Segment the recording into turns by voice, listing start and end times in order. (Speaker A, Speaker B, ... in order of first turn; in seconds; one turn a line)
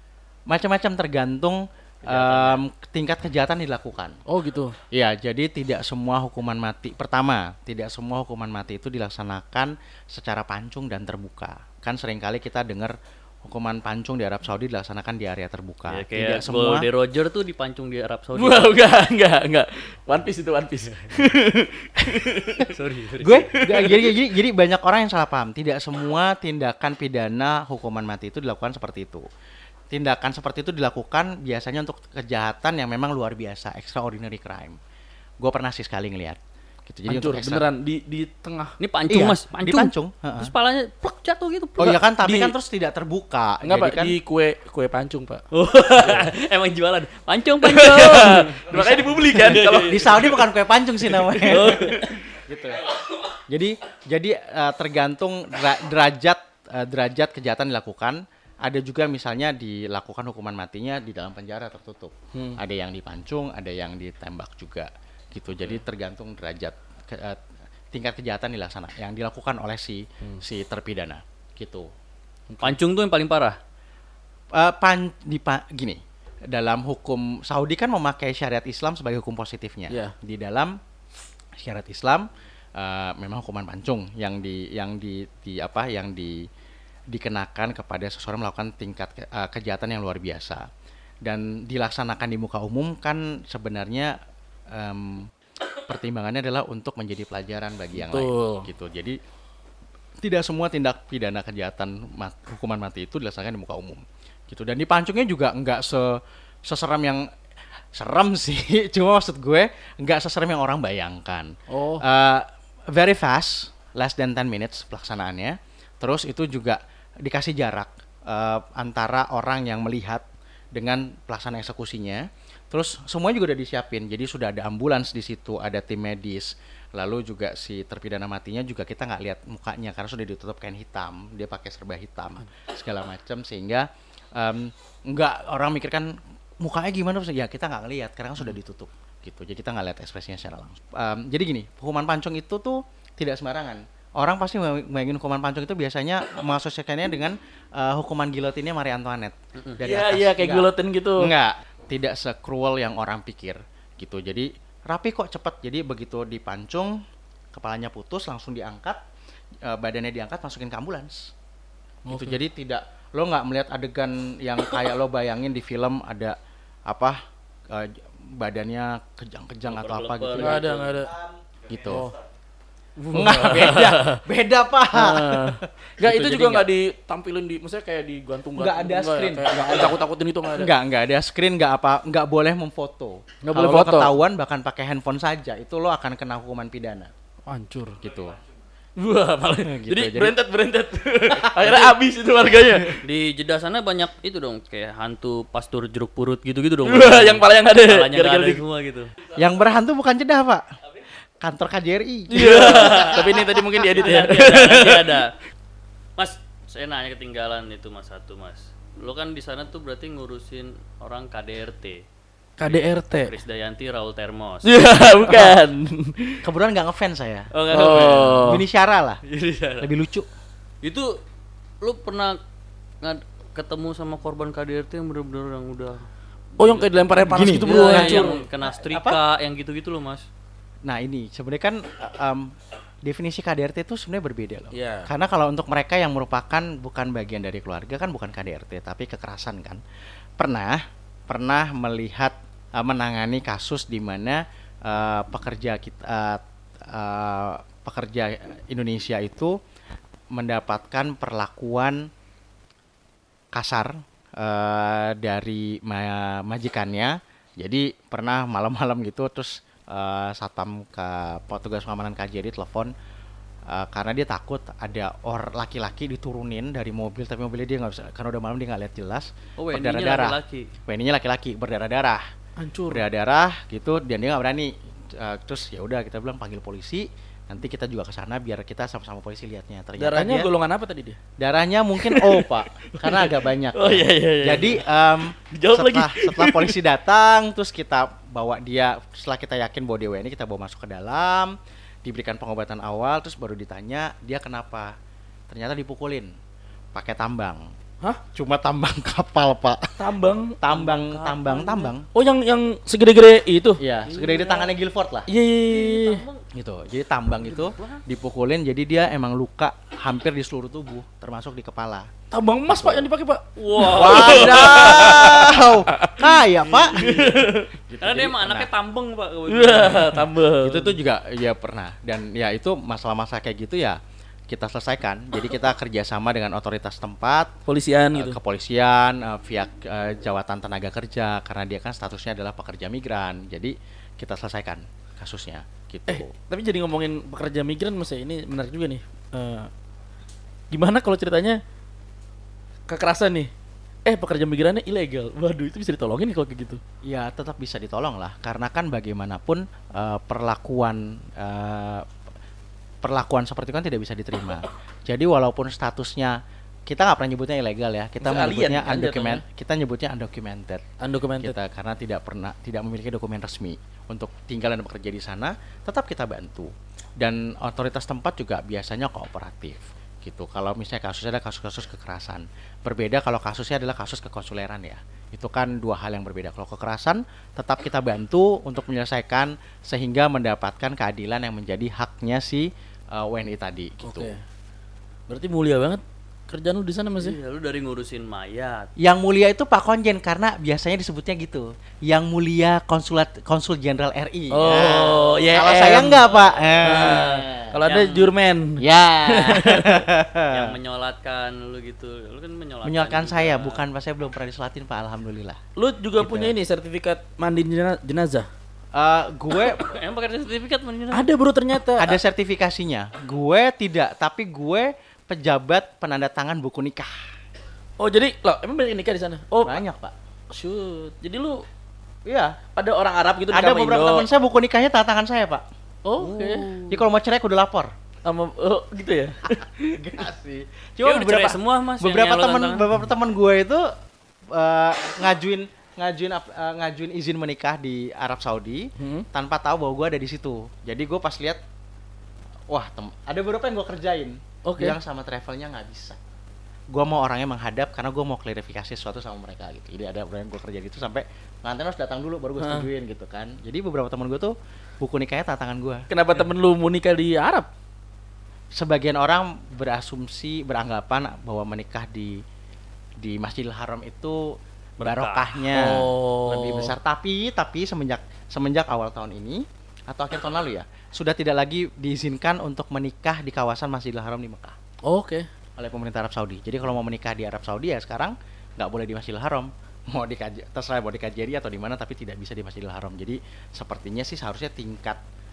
Speaker A: 0.5-4.2
Speaker B: 2.0-2.6
Speaker C: 4.3-4.8
Speaker A: 4.9-16.9
Speaker B: 15.9-18.8
Speaker C: 18.4-22.7
Speaker B: 22.7-23.6
Speaker A: 23.2-29.2
Speaker C: 23.6-24.1
Speaker A: 29.9-34.8
Speaker A: 35.4-37.6
Speaker C: 37.1-38.8
Speaker B: 38.8-42.0
Speaker A: 39.1-40.5
Speaker A: 41.8-44.1
Speaker C: 42.2-42.5
Speaker C: 43.6-45.4
Speaker B: 45.5-50.2
Speaker C: 47.6-50.2
Speaker A: 48.7-49.1
Speaker A: 49.9-52.9
Speaker B: 51.3-52.2
Speaker C: 51.5-52.0
Speaker A: 53.5-71.9
Speaker C: 62.3-62.6
Speaker C: 72.5-72.8
Speaker B: 72.6-73.6
Speaker A: 74.5-80.8
Speaker C: 79.9-80.2
Speaker A: 81.6-86.5
Speaker A: 87.1-90.7
Speaker A: 91.2-94.2
Speaker A: 94.7-95.3
Speaker A: 95.9-99.2
Speaker C: 98.0-98.7
Speaker A: 100.2-107.3
Speaker A: 107.9-157.0
Speaker C: 111.7-112.0
Speaker C: 149.8-151.3
Speaker A: 157.5-159.0
Speaker A: 159.6-161.3
Speaker C: 162.1-162.4
Speaker A: 162.1-166.4
Speaker A: 166.9-170.7
Speaker B: 169.7-171.0
Speaker C: 170.4-171.1
Speaker A: 171.6-172.1
Speaker C: 171.9-172.1
Speaker C: 173.0-174.2
Speaker A: 173.1-176.7
Speaker C: 174.9-180.7
Speaker A: 178.6-187.1
Speaker C: 183.4-184.2
Speaker C: 187.5-188.0
Speaker A: 188.0-188.4
Speaker C: 189.0-193.0
Speaker A: 189.6-190.4
Speaker A: 191.4-191.9
Speaker B: 193.0-199.1
Speaker C: 196.8-198.6
Speaker A: 199.3-200.6
Speaker A: 201.4-203.2
Speaker C: 202.3-205.2
Speaker B: 202.4-205.3
Speaker B: 206.2-212.0
Speaker C: 212.6-213.4
Speaker B: 212.6-214.8
Speaker C: 214.6-216.4
Speaker A: 215.3-215.6
Speaker A: 216.4-219.2
Speaker B: 217.6-218.4
Speaker C: 217.7-218.6
Speaker B: 219.3-219.9
Speaker A: 219.8-220.3
Speaker B: 220.8-221.2
Speaker B: 221.8-222.4
Speaker B: 223.0-226.0
Speaker C: 226.6-228.4
Speaker B: 226.6-230.3
Speaker A: 227.3-229.2
Speaker A: 230.9-239.8
Speaker C: 234.7-235.1
Speaker A: 240.4-249.6
Speaker A: 250.3-252.1
Speaker A: 253.5-262.9
Speaker A: 263.7-272.2
Speaker B: 269.6-270.7
Speaker C: 272.6-273.0
Speaker A: 272.9-280.5
Speaker C: 280.0-281.2
Speaker A: 281.4-294.9
Speaker C: 282.0-284.9
Speaker C: 285.5-286.8
Speaker A: 295.5-296.3
Speaker A: 296.9-297.7
Speaker A: 298.3-300.0
Speaker C: 300.0-300.6
Speaker A: 300.6-302.1
Speaker B: 300.7-301.9
Speaker C: 302.1-303.8
Speaker A: 303.8-305.3
Speaker B: 304.1-304.7
Speaker C: 305.3-306.2
Speaker B: 305.7-306.4
Speaker A: 306.5-312.1
Speaker B: 307.4-308.0
Speaker C: 312.3-317.7
Speaker A: 312.7-313.1
Speaker B: 313.6-315.5
Speaker A: 313.9-317.2
Speaker B: 317.0-317.4
Speaker A: 317.7-318.7
Speaker B: 318.0-320.3
Speaker C: 319.5-320.9
Speaker A: 320.6-327.6
Speaker C: 327.7-328.4
Speaker A: 328.1-336.3
Speaker C: 336.1-339.7
Speaker C: 340.7-341.6
Speaker C: 342.9-343.5
Speaker C: 344.1-346.8
Speaker A: 347.0-352.1
Speaker A: 353.0-360.9
Speaker C: 358.2-359.4
Speaker C: 361.0-361.6
Speaker A: 361.4-384.3
Speaker C: 384.0-384.4
Speaker C: 385.3-387.4
Speaker B: 387.2-388.9
Speaker A: 389.0-397.8
Speaker C: 394.5-396.2
Speaker B: 394.7-397.2
Speaker C: 396.8-400.1
Speaker B: 397.8-398.3
Speaker A: 398.8-400.8
Speaker B: 400.5-403.8
Speaker A: 402.8-405.6
Speaker C: 405.8-408.5
Speaker A: 406.2-406.6
Speaker A: 408.9-409.9
Speaker B: 409.6-411.3
Speaker C: 411.1-412.2
Speaker A: 412.0-417.3
Speaker C: 418.0-419.8
Speaker A: 419.6-420.1
Speaker C: 420.5-421.6
Speaker A: 422.2-422.6
Speaker C: 422.8-424.3
Speaker A: 423.5-425.6
Speaker C: 426.1-426.8
Speaker A: 426.2-427.9
Speaker B: 426.3-426.9
Speaker C: 428.2-430.1
Speaker A: 429.6-433.9
Speaker B: 431.0-432.9
Speaker A: 434.5-441.6
Speaker C: 439.0-439.3
Speaker A: 442.7-446.2
Speaker C: 444.6-445.0
Speaker A: 446.9-456.0
Speaker C: 452.6-452.9
Speaker C: 456.1-457.7
Speaker A: 458.8-462.4
Speaker A: 463.2-474.8
Speaker B: 465.0-465.6
Speaker C: 465.7-466.9
Speaker C: 475.0-475.5
Speaker A: 475.8-485.2